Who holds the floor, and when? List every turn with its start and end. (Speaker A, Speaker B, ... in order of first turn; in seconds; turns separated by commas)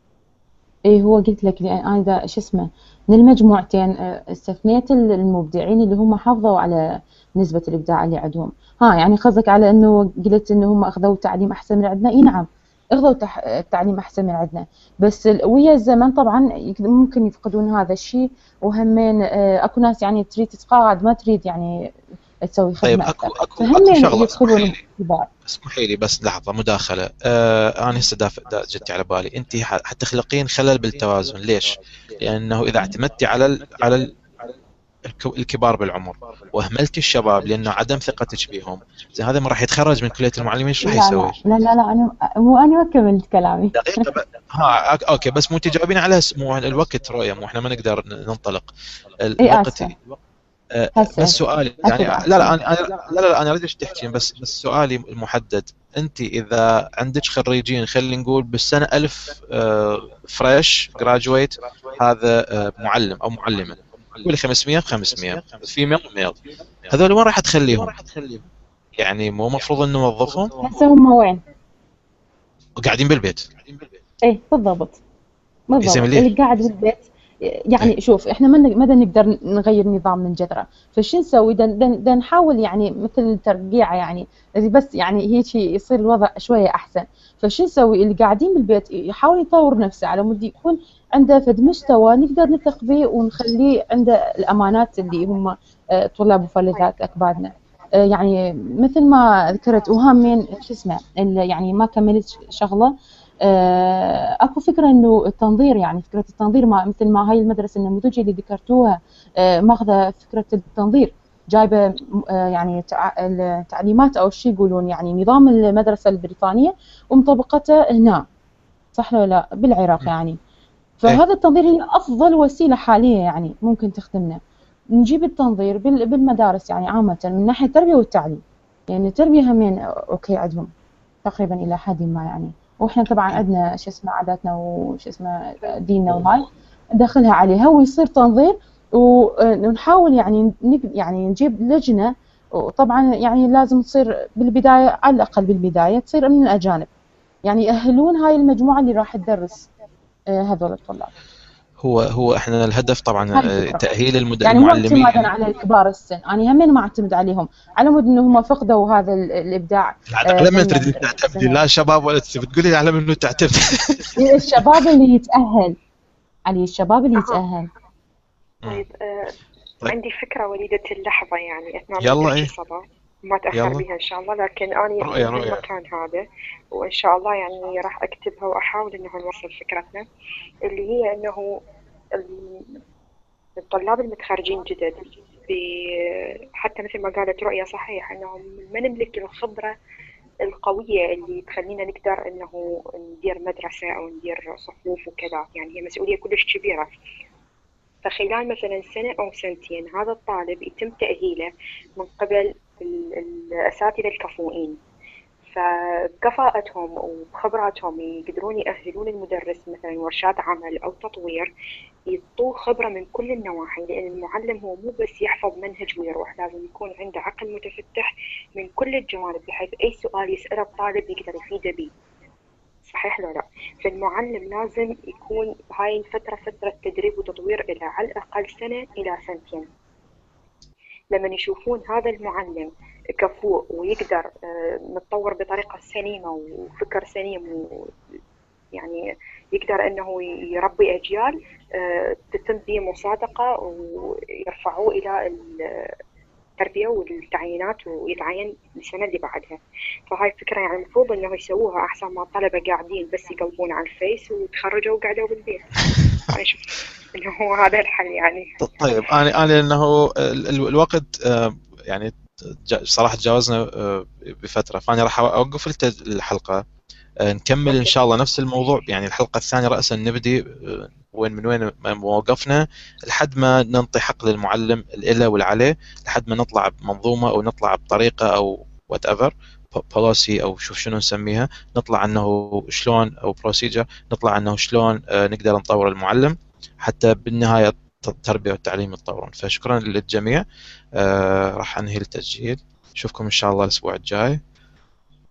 Speaker A: 0.9-21.9, Speaker A: 22.5-25.3, Speaker B: 22.8-24.8, Speaker B: 25.5-34.1, Speaker B: 35.0-41.4, Speaker A: 40.8-44.1, Speaker B: 43.7-49.9, Speaker A: 49.4-49.9, Speaker B: 50.7-68.0, Speaker A: 50.9-52.6, Speaker B: 69.0-70.5, Speaker A: 70.6-71.4, Speaker B: 72.8-73.5, Speaker A: 74.2-75.0, Speaker A: 75.7-97.5, Speaker B: 75.8-76.3, Speaker A: 98.1-118.2, Speaker A: 118.9-120.4, Speaker A: 121.0-124.4, Speaker A: 125.0-130.7, Speaker A: 131.2-146.9, Speaker A: 147.4-149.7, Speaker A: 150.3-151.1, Speaker B: 151.8-155.3, Speaker A: 153.3-153.8, Speaker A: 154.4-161.6, Speaker B: 160.1-164.8, Speaker A: 164.2-165.8, Speaker A: 166.5-167.7, Speaker C: 167.2-167.4, Speaker C: 168.7-169.3, Speaker C: 169.8-180.1, Speaker B: 172.0-172.5, Speaker B: 173.5-173.8, Speaker B: 175.0-175.6, Speaker C: 180.7-181.5, Speaker C: 182.1-182.8, Speaker C: 183.6-189.7, Speaker C: 190.4-196.9, Speaker C: 198.0-204.8, Speaker C: 205.5-211.5, Speaker C: 212.1-221.9, Speaker C: 222.8-229.7, Speaker C: 231.1-237.9, Speaker C: 238.7-245.9, Speaker C: 246.6-255.7, Speaker C: 256.2-258.5, Speaker B: 258.6-266.6, Speaker B: 267.2-290.4, Speaker C: 267.7-267.9, Speaker B: 291.0-294.4